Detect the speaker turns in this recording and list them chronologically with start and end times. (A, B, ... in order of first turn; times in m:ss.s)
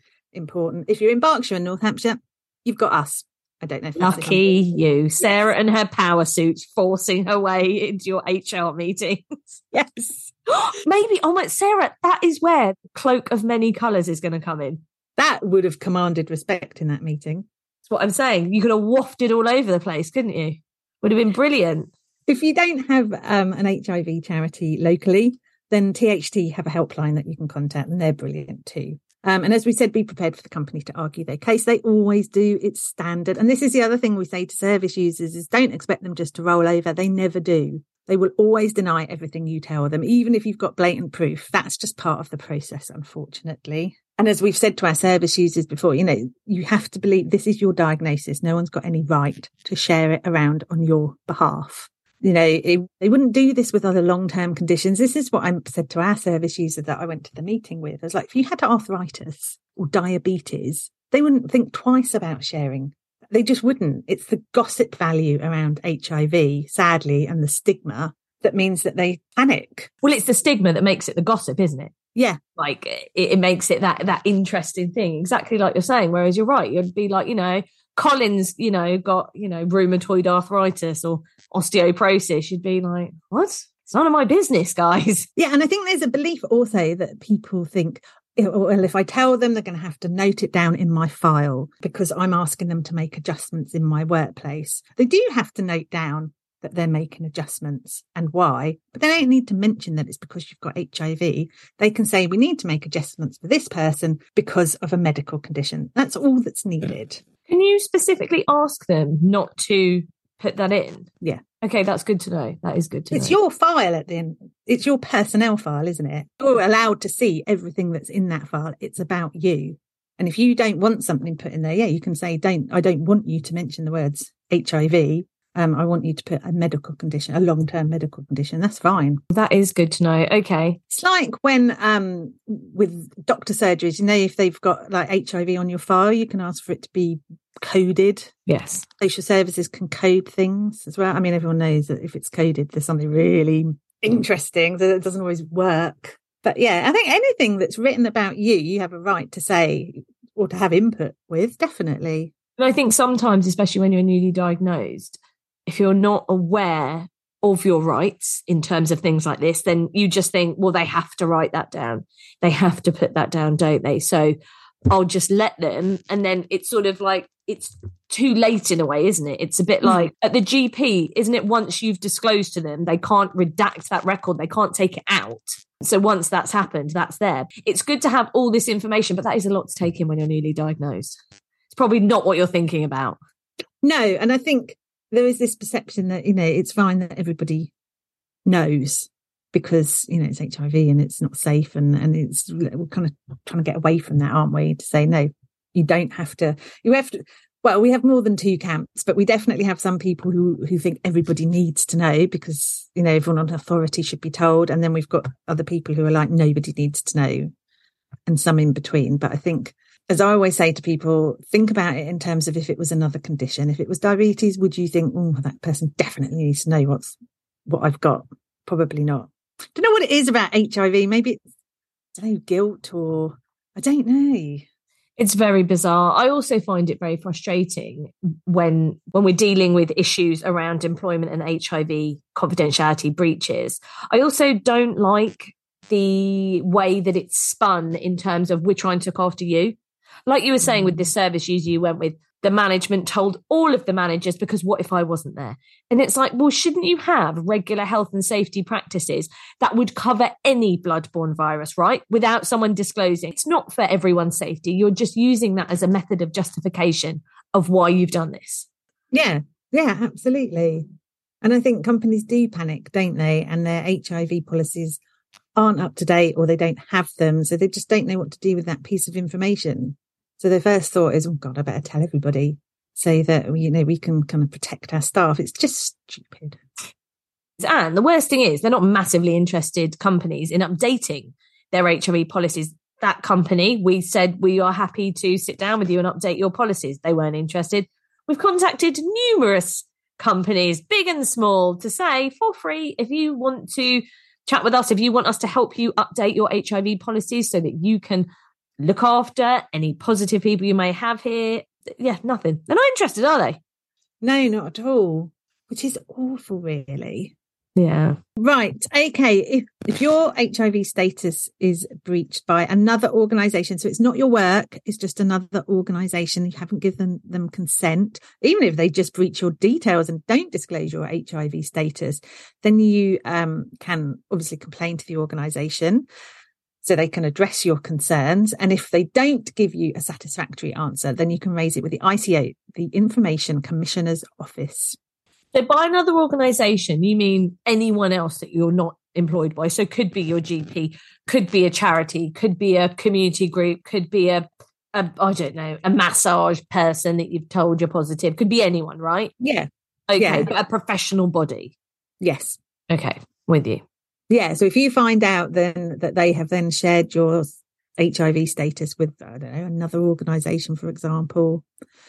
0:00.3-0:04.6 A
0:04.0-0:09.6 B
0:09.7-0:10.3 A
0:10.5-0:14.8 B
0:15.2-0:17.5 A
0:17.9-0:21.9 B
0:22.3-1:09.9 A
1:10.0-1:11.9 B
1:12.6-1:25.3 B
1:25.4-1:47.2 A
1:47.5-1:51.1 B
1:51.6-1:53.4 B
1:53.1-2:09.2 A
2:09.3-2:10.8 B
2:10.9-2:18.3 A
2:18.5-2:18.8 B
2:19.0-2:32.3 A
2:32.6-2:44.4 B
2:44.9-3:01.2 B
2:49.8-2:50.1 A
3:01.7-3:03.2 B
3:03.8-3:07.7 A
3:08.4-3:27.5 A
3:28.2-3:37.1 A
3:37.7-3:41.4 A
3:42.1-3:44.7 A
3:45.2-3:59.8 B
4:00.3-4:18.6 B
4:00.6-4:01.0 A
4:19.1-4:20.9 A
4:21.4-4:25.0 A
4:25.6-4:36.6 A
4:37.6-4:58.3 B
4:58.8-5:03.6 B
5:04.2-5:07.3 A
5:07.8-5:08.2 B
5:08.4-5:26.0 A
5:26.8-5:35.0 A
5:35.5-5:49.3 B
5:49.4-5:50.5 A
5:50.1-5:51.7 B
5:52.2-5:52.6 A
5:52.9-5:53.8 B
5:54.3-6:01.6 A